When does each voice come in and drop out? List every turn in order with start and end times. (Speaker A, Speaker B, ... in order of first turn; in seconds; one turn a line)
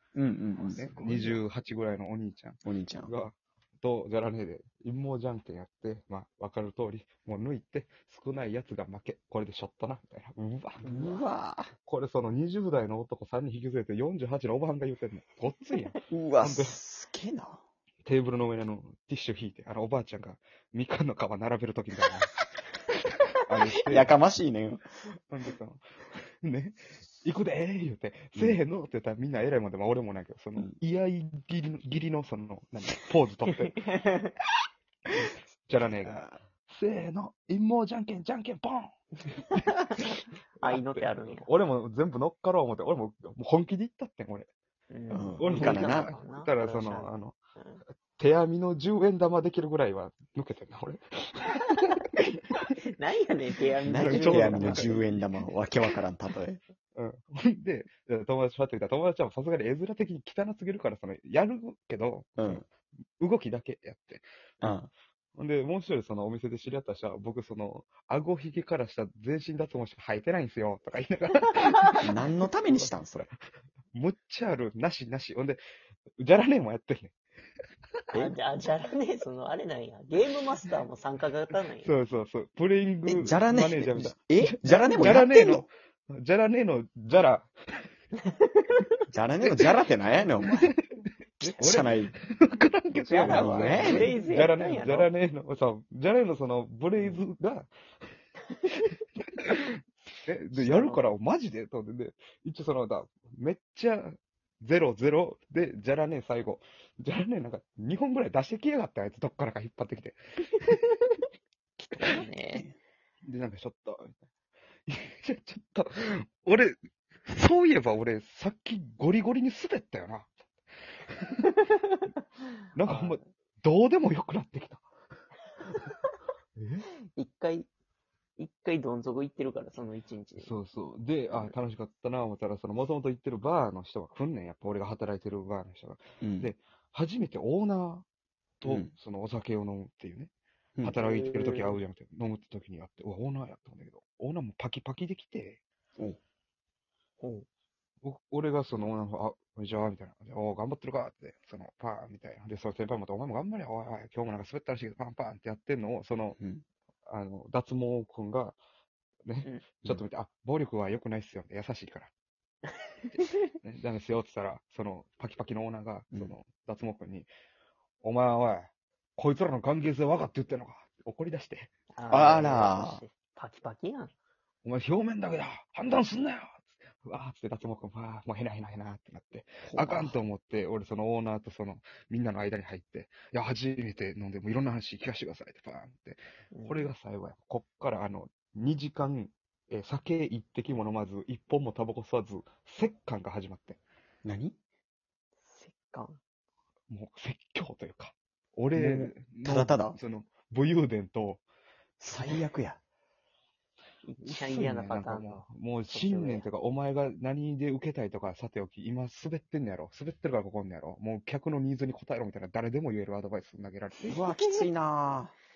Speaker A: 0.1-1.4
Speaker B: 0.6-10.9
Speaker A: 2.6-3.1
Speaker C: 10.8-11.2
Speaker A: 10.8-11.7
Speaker B: 11.8-16.8
Speaker A: 16.1-17.6
Speaker B: 18.0-22.4
Speaker B: 23.4-24.2
Speaker A: 23.9-24.8
Speaker B: 25.3-25.8
Speaker B: 26.4-33.9
Speaker C: 33.7-34.3
Speaker B: 35.1-38.9
Speaker A: 35.8-36.4
Speaker C: 40.6-41.5
Speaker B: 40.6-44.5
Speaker C: 44.9-47.8
Speaker A: 45.1-46.1
Speaker B: 45.4-47.4
Speaker B: 48.2-52.0
Speaker C: 52.8-55.0
Speaker A: 53.9-56.6
Speaker B: 53.9-55.4
Speaker B: 56.9-62.6
Speaker A: 62.4-62.6
Speaker B: 63.2-64.8
Speaker A: 64.6-64.9
Speaker B: 65.3-72.9
Speaker A: 72.0-73.3
Speaker B: 73.9-75.6
Speaker B: 76.2-77.1
Speaker C: 78.1-81.9
Speaker B: 81.8-87.5
Speaker A: 83.0-85.7
Speaker C: 84.7-85.2
Speaker A: 89.1-90.7
Speaker B: 89.4-89.8
Speaker B: 90.5-90.8
Speaker A: 91.4-92.1
Speaker B: 91.4-97.7
Speaker C: 93.0-95.1
Speaker A: 93.2-94.2
Speaker B: 99.4-110.8
Speaker C: 100.5-101.0
Speaker C: 111.8-112.7
Speaker A: 112.5-112.8
Speaker B: 113.2-114.1
Speaker B: 114.9-120.3
Speaker B: 121.2-121.5
Speaker B: 122.7-124.8
Speaker C: 122.8-123.2
Speaker B: 126.5-126.8
Speaker C: 127.1-127.7
Speaker C: 128.4-130.5
Speaker B: 130.4-138.0
Speaker A: 136.2-136.5
Speaker B: 138.6-145.6
Speaker A: 138.6-138.9
Speaker C: 141.0-141.8
Speaker C: 147.2-147.4
Speaker B: 148.0-156.4
Speaker A: 156.4-156.6
Speaker B: 157.1-158.6
Speaker B: 159.2-162.1
Speaker B: 163.1-167.3
Speaker B: 168.0-171.7
Speaker C: 171.9-174.1
Speaker A: 172.1-173.0
Speaker B: 174.6-193.8
Speaker A: 179.6-180.2
Speaker C: 186.5-186.9
Speaker A: 194.2-194.6
Speaker C: 195.4-196.2
Speaker B: 196.9-201.4
Speaker A: 198.7-200.0
Speaker A: 202.0-202.8
Speaker B: 202.1-202.4
Speaker C: 204.0-206.4
Speaker B: 204.2-214.2
Speaker A: 214.1-215.3
Speaker C: 214.2-214.6